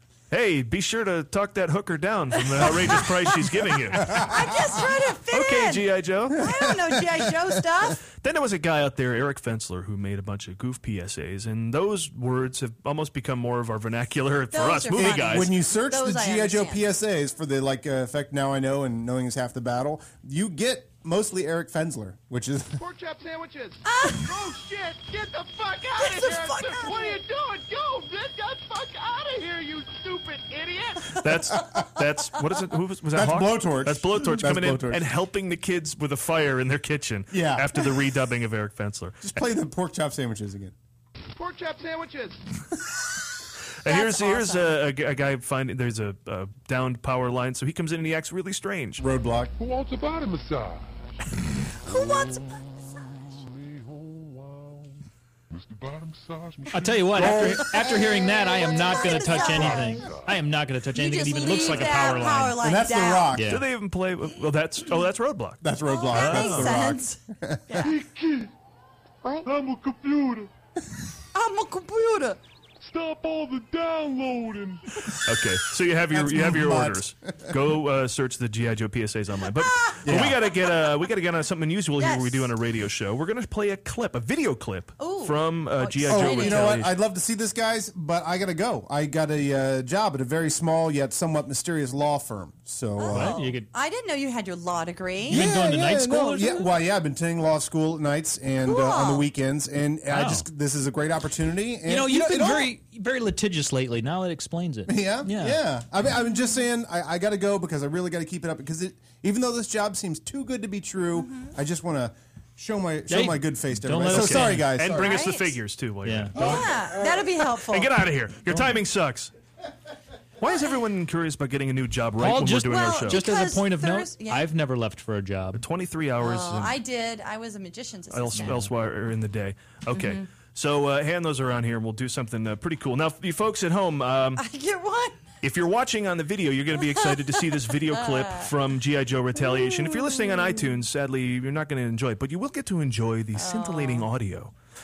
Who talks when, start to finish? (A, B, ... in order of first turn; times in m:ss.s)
0:00.3-0:04.3 A
0:04.0-0:04.3 B
0:04.1-0:08.0 C
0:05.3-0:06.4 A
0:06.5-0:06.9 B
0:08.2-0:15.5 A
0:14.5-0:16.8 C
0:15.0-0:22.8 B
0:22.8-0:31.2 D
0:23.8-0:24.2 C
0:26.0-0:27.2 C
0:31.1-0:39.4 A
0:33.1-0:35.1 B
0:37.3-0:37.9 B
0:39.2-0:40.7 B
0:41.3-0:42.4 D
0:43.8-0:49.0 A
0:43.8-0:44.8 C
0:49.0-0:49.5 B
0:49.6-0:51.1 D
0:51.8-0:52.5 C
0:51.9-0:57.3 D
0:56.7-1:02.6 E
0:57.2-0:57.6 B
0:57.2-1:00.1 C
0:59.1-1:00.4 D
1:00.9-1:03.3 C
1:02.6-1:03.6 B
1:03.3-1:03.6 E
1:03.5-1:06.8 A
1:05.6-1:07.9 B
1:05.9-1:07.9 C
1:07.8-1:08.5 D
1:09.4-1:10.5 D
1:11.3-1:12.4 C
1:12.8-1:14.8 D
1:15.1-1:26.9 A
1:16.1-1:17.1 B
1:19.6-1:20.0 C
1:20.0-1:20.4 B
1:22.0-1:22.5 C
1:25.0-1:26.8 C
1:26.1-1:33.4 B
1:33.0-1:35.5 C
1:33.1-1:33.7 E
1:35.3-1:36.7 E
1:35.3-1:42.7 B
1:38.6-1:39.3 C
1:40.1-1:40.4 E
1:41.8-1:45.6 E
1:44.8-1:55.2 B
1:51.1-1:51.5 C
1:53.1-1:54.7 E
1:54.1-1:57.0 A
1:55.0-1:55.4 C
1:56.0-1:56.6 E
1:56.3-1:57.9 C
1:56.4-1:56.7 B
1:57.6-1:59.3 A
2:00.4-2:03.2 A
2:00.4-2:00.8 C
2:02.2-2:05.6 E
2:02.6-2:04.4 C
2:05.5-2:06.8 A
2:06.2-2:08.6 C
2:08.1-2:14.4 A
2:08.4-2:08.7 E
2:09.9-2:10.2 C
2:14.4-2:15.2 C
2:15.4-2:24.5 A
2:17.9-2:18.5 C
2:19.4-2:20.6 C
2:23.3-2:24.1 C